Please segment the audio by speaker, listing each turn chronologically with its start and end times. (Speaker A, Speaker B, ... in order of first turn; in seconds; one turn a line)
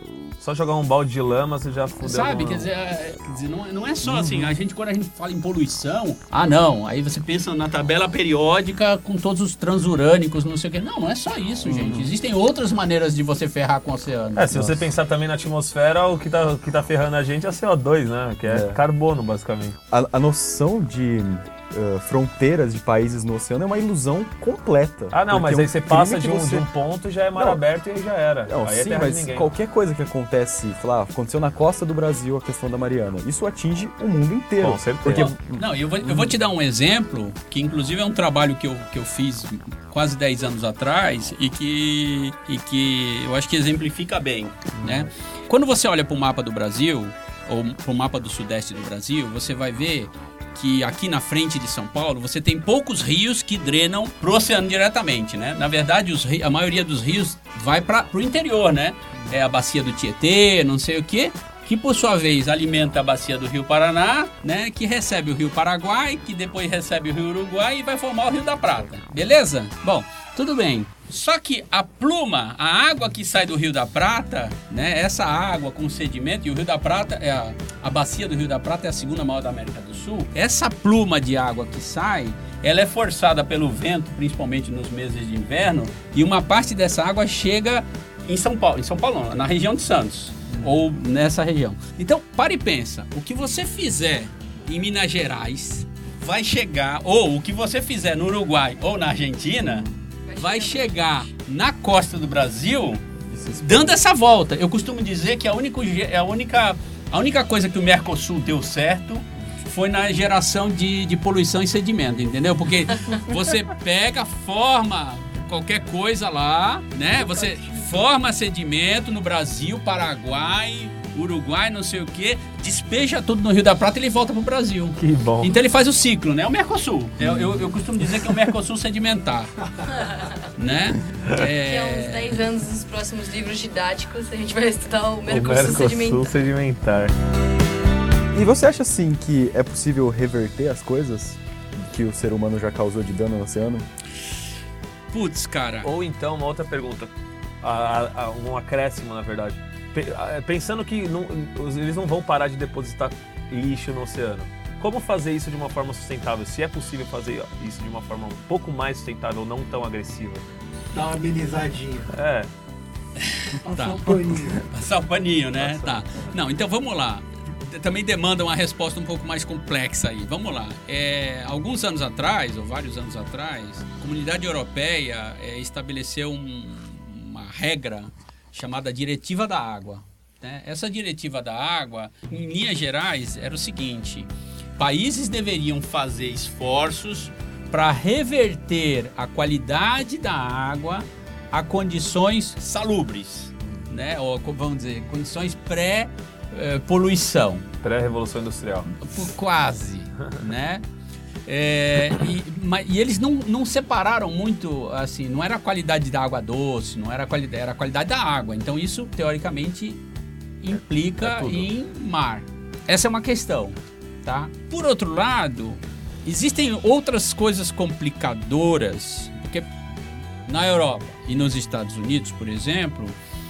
Speaker A: 0.4-2.7
Speaker B: 2.0-14.6
Speaker A: 4.0-4.5
Speaker A: 11.7-12.1
Speaker A: 14.3-19.8
Speaker C: 18.4-18.8
Speaker C: 19.9-26.7
Speaker A: 25.1-29.5
Speaker C: 27.3-27.6
Speaker C: 28.4-36.3
Speaker A: 34.6-35.4
Speaker B: 35.1-103.0
Speaker A: 44.8-45.0
Speaker C: 99.6-99.9
Speaker D: 100.2-101.3
Speaker C: 103.2-104.0
Speaker B: 103.6-129.5
Speaker A: 125.0-125.5
Speaker A: 127.2-127.7
Speaker D: 129.9-130.4
Speaker B: 130.6-132.4
Speaker D: 131.5-136.3
Speaker A: 135.3-137.1
Speaker C: 138.3-143.9
Speaker B: 145.1-145.9
Speaker A: 145.8-147.1
Speaker A: 147.6-160.4
Speaker E: 160.9-162.1
Speaker A: 162.1-162.5
Speaker B: 163.2-197.7
Speaker E: 163.6-164.7
Speaker A: 165.6-166.3
Speaker A: 197.8-198.9
Speaker B: 199.0-200.8
Speaker B: 201.5-210.0
Speaker B: 210.6-219.7
Speaker A: 210.7-211.7
Speaker B: 220.5-223.2